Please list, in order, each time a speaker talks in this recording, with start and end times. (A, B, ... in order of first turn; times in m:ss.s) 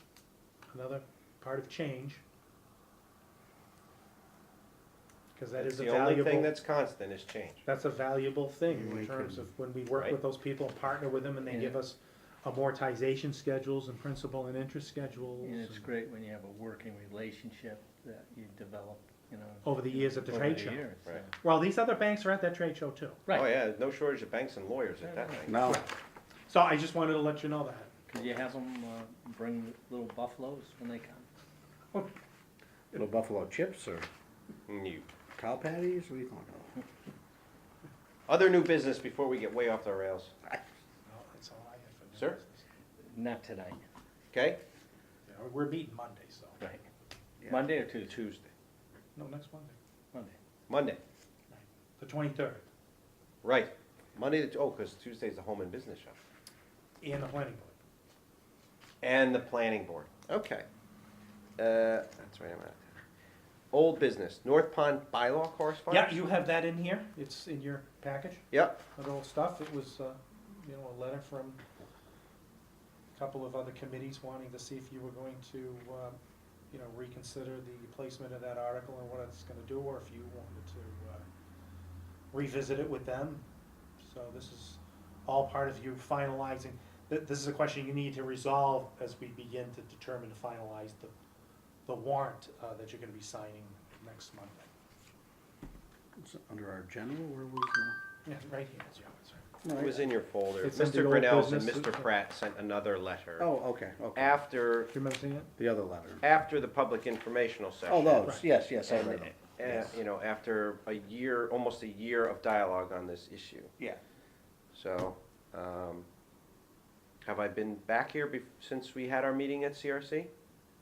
0:00.7-0:02.2 A
0:05.4-0:06.6 A
0:05.6-0:07.6 B
0:07.6-0:15.9 A
0:08.7-0:09.5 C
0:09.9-0:10.2 B
0:11.5-0:11.8 D
0:15.4-0:21.3 D
0:19.6-0:20.9 A
0:21.4-0:23.2 A
0:23.3-0:25.6 B
0:25.0-0:25.5 D
0:25.5-0:25.9 C
0:26.5-0:27.9 A
0:28.1-0:31.3 D
0:28.2-0:28.4 B
0:32.9-0:34.1 C
0:34.7-0:35.1 B
0:35.4-0:36.8 C
0:38.3-0:40.3 B
0:41.0-0:42.6 A
0:43.1-0:43.8 D
0:44.3-0:44.6 B
0:45.3-0:46.6 A
0:47.5-0:48.3 D
0:48.1-0:48.5 B
0:49.2-0:49.8 A
0:50.7-0:51.0 B
0:51.5-0:52.7 A
0:53.4-0:56.2 B
0:57.0-0:57.8 A
0:59.0-1:00.7 B
1:01.6-1:03.0 B
1:03.7-1:06.2 B
1:05.9-1:11.6 A
1:08.5-1:08.8 B
1:13.2-1:16.2 A
1:16.7-1:21.3 A
1:22.3-1:23.4 A
1:24.0-1:31.1 A
1:31.9-1:34.7 A
1:36.2-1:38.0 C
1:38.2-1:39.5 A
1:39.6-1:40.1 C
1:39.7-1:43.5 B
1:40.6-1:42.1 A
1:43.4-1:44.4 C
1:44.2-1:44.9 B
1:44.9-1:45.5 A
1:45.6-1:46.2 C
1:46.2-1:53.7 B
1:47.9-1:50.0 C
1:54.7-1:56.1 B
1:57.2-2:00.3 B